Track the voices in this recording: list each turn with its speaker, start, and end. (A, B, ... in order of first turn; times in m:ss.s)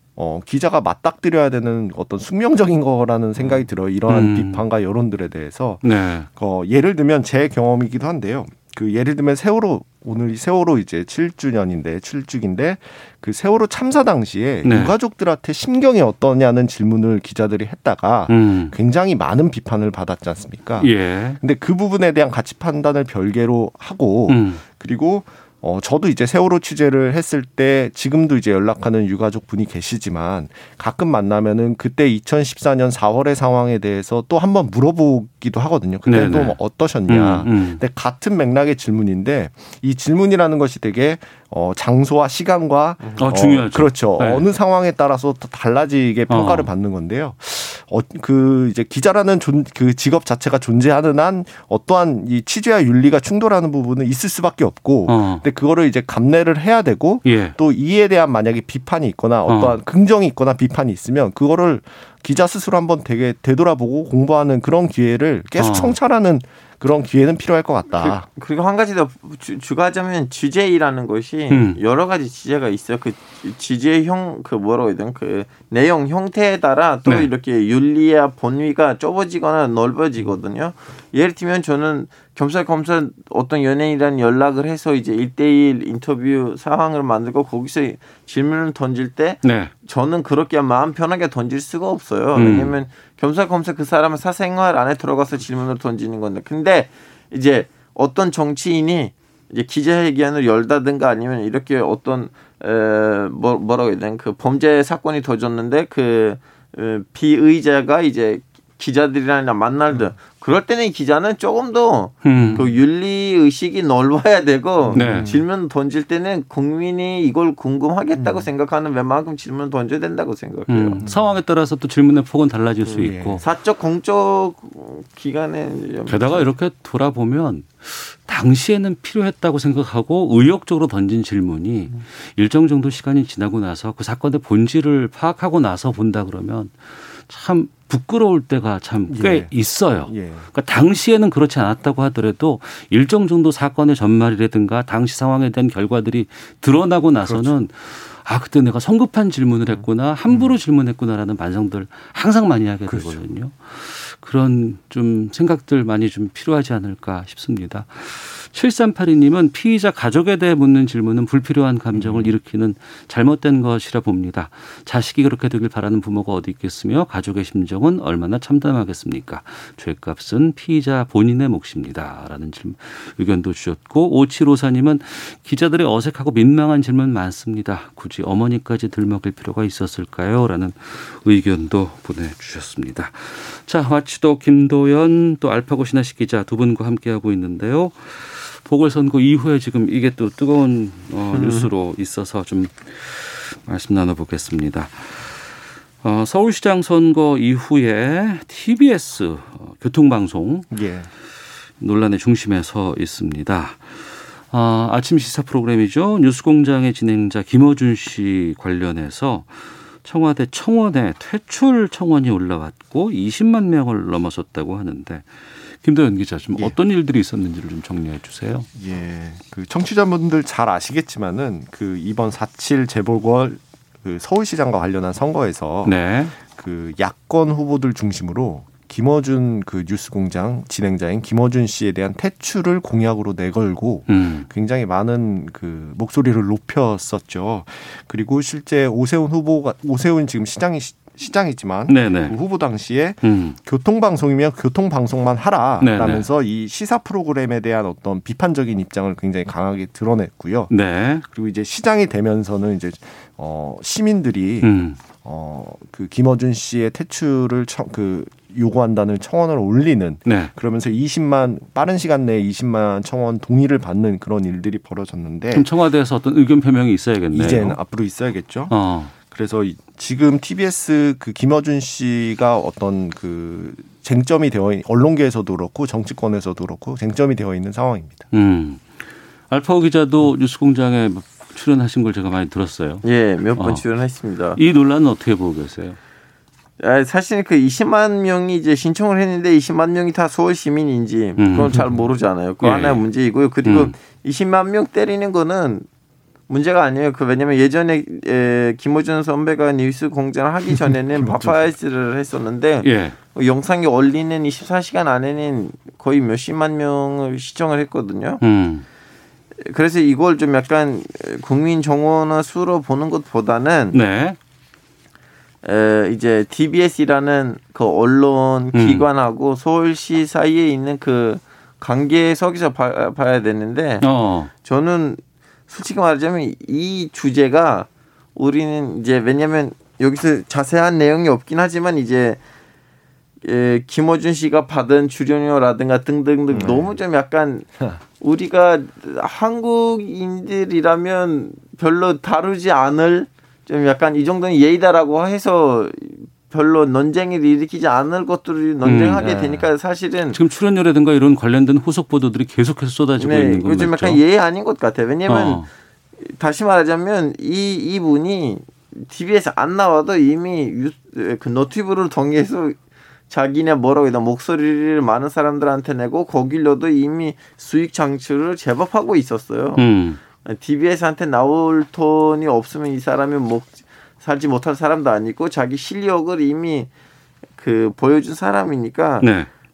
0:00.2-1:08.2 A
0:04.1-0:04.6 B
0:05.8-0:06.3 B
0:14.6-0:14.9 B
0:18.3-0:18.7 B
0:20.8-0:21.4 B
0:24.3-0:24.6 B
0:36.0-0:37.8 B
0:43.2-0:44.4 B
0:46.3-0:46.7 B
0:55.1-0:55.4 B
0:57.2-0:57.6 B
0:59.5-0:59.8 B
1:05.6-1:06.0 B
1:07.9-2:01.0 C
1:11.5-1:11.8 B
1:29.4-1:29.7 B
1:32.4-1:32.7 B
1:52.2-1:52.6 B
1:52.3-1:52.7 A
1:54.9-1:55.4 A
1:54.9-1:55.4 B
1:58.2-1:58.5 A
2:00.7-2:03.4 B
2:01.0-2:01.4 A
2:03.0-2:03.4 A
2:03.4-2:06.5 C
2:06.1-2:16.7 B
2:17.2-3:15.5 B
2:19.1-2:19.5 A
2:20.1-2:20.5 A
2:27.2-2:27.5 A
2:29.7-2:30.5 A
2:32.9-2:33.2 A
2:41.9-2:42.3 A
3:11.3-3:11.7 C
3:16.0-3:20.7 B
3:20.7-3:21.1 A
3:21.8-3:38.7 B
3:38.7-4:10.7 A
3:45.8-3:46.3 B
3:54.1-3:54.5 B
4:01.9-4:02.3 B
4:03.2-4:03.6 B
4:05.8-4:06.3 B
4:10.7-4:11.2 B
4:11.2-4:25.7 A
4:14.6-4:15.0 B
4:20.2-4:20.5 B
4:25.5-4:27.8 B
4:27.3-4:38.2 A
4:28.7-4:29.1 B
4:38.3-4:38.8 B
4:39.5-4:43.0 B
4:43.0-4:44.6 C
4:43.6-4:43.8 B
4:44.6-4:46.0 B
4:46.8-4:55.8 C
4:51.4-4:51.8 B
4:51.7-4:52.0 A
4:52.6-4:53.0 B
4:53.6-4:53.9 B
4:56.5-5:08.4 C
5:00.7-5:01.5 A
5:02.8-5:03.2 B
5:08.4-5:08.8 B
5:09.6-5:14.0 C
5:13.9-5:14.4 B
5:15.6-5:24.0 C
5:18.7-5:19.0 B
5:24.0-5:24.5 B
5:24.6-5:32.4 C
5:33.4-5:37.7 C
5:36.5-5:37.0 A
5:38.2-5:50.4 C
5:48.8-5:49.7 B
5:50.3-5:54.2 B
5:53.2-5:55.6 C
5:55.3-5:55.7 B
5:56.2-6:02.8 C
6:03.3-6:09.8 C
6:09.8-6:10.2 B
6:10.4-6:16.9 C
6:17.6-6:19.3 C
6:19.2-6:19.5 B